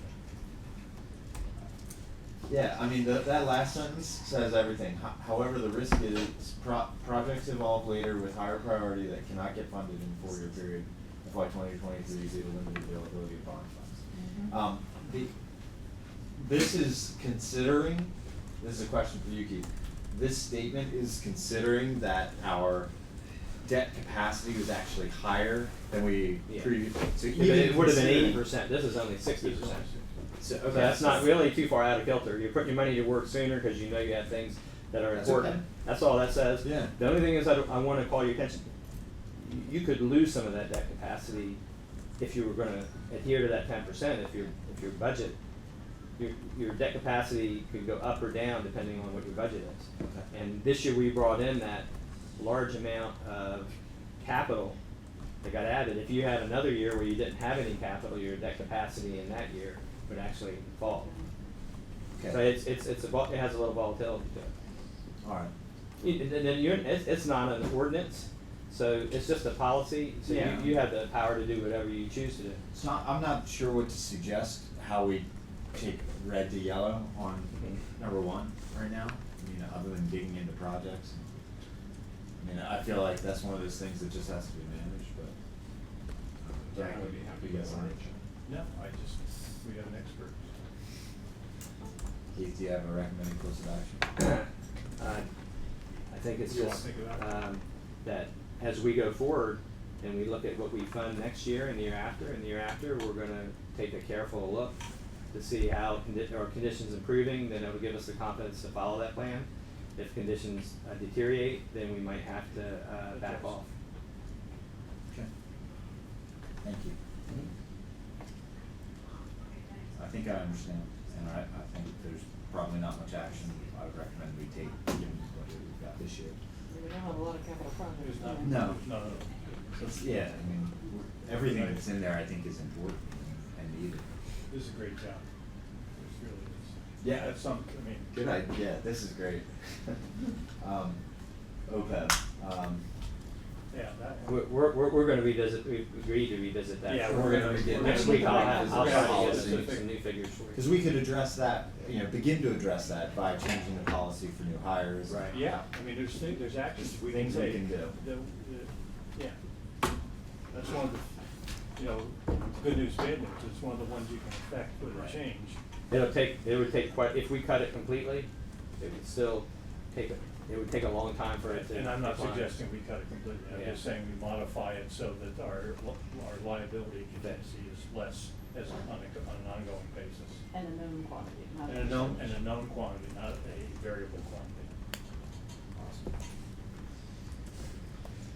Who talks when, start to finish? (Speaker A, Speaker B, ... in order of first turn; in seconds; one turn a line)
Speaker A: 2.5-15.3
Speaker B: 14.1-14.6
Speaker A: 16.4-22.9
Speaker A: 23.6-28.4
Speaker C: 26.5-29.9
Speaker D: 29.4-30.1
Speaker A: 30.4-31.5
Speaker C: 30.7-38.7
Speaker A: 35.1-35.6
Speaker A: 36.6-36.9
Speaker C: 39.4-41.6
Speaker C: 42.2-45.4
Speaker C: 46.2-54.8
Speaker A: 50.0-50.3
Speaker C: 55.4-61.1
Speaker B: 60.8-61.3
Speaker A: 62.2-62.5
Speaker C: 62.2-64.5
Speaker A: 65.2-65.5
Speaker C: 66.0-72.6
Speaker A: 70.2-70.8
Speaker A: 72.7-81.2
Speaker C: 77.5-77.8
Speaker A: 82.4-85.3
Speaker A: 86.4-88.2
Speaker D: 86.7-87.7
Speaker D: 88.4-90.5
Speaker A: 92.3-94.0
Speaker C: 94.2-94.5
Speaker C: 95.0-95.3
Speaker C: 96.1-113.7
Speaker D: 96.4-97.3
Speaker D: 113.0-113.7
Speaker A: 116.6-117.0
Speaker A: 119.9-126.4
Speaker B: 126.7-128.6
Speaker D: 128.0-129.8
Speaker A: 128.4-128.8
Speaker A: 129.8-134.1
Speaker D: 131.3-131.8
Speaker D: 134.5-135.3
Speaker D: 135.9-138.1
Speaker A: 137.0-137.3
Speaker A: 138.1-140.0
Speaker A: 140.6-141.0
Speaker A: 141.7-142.8
Speaker D: 143.7-144.5
Speaker C: 144.2-150.7
Speaker D: 146.8-149.8
Speaker A: 147.1-149.9
Speaker B: 147.8-148.9
Speaker A: 150.5-155.6
Speaker C: 155.1-155.4
Speaker D: 155.3-159.4
Speaker A: 156.8-158.0
Speaker D: 160.5-161.1
Speaker D: 161.8-165.6
Speaker A: 164.9-165.2
Speaker C: 165.9-172.6
Speaker D: 171.4-180.4
Speaker C: 173.5-173.8
Speaker C: 177.1-177.4
Speaker B: 180.5-182.5
Speaker D: 181.7-184.7
Speaker A: 185.8-186.0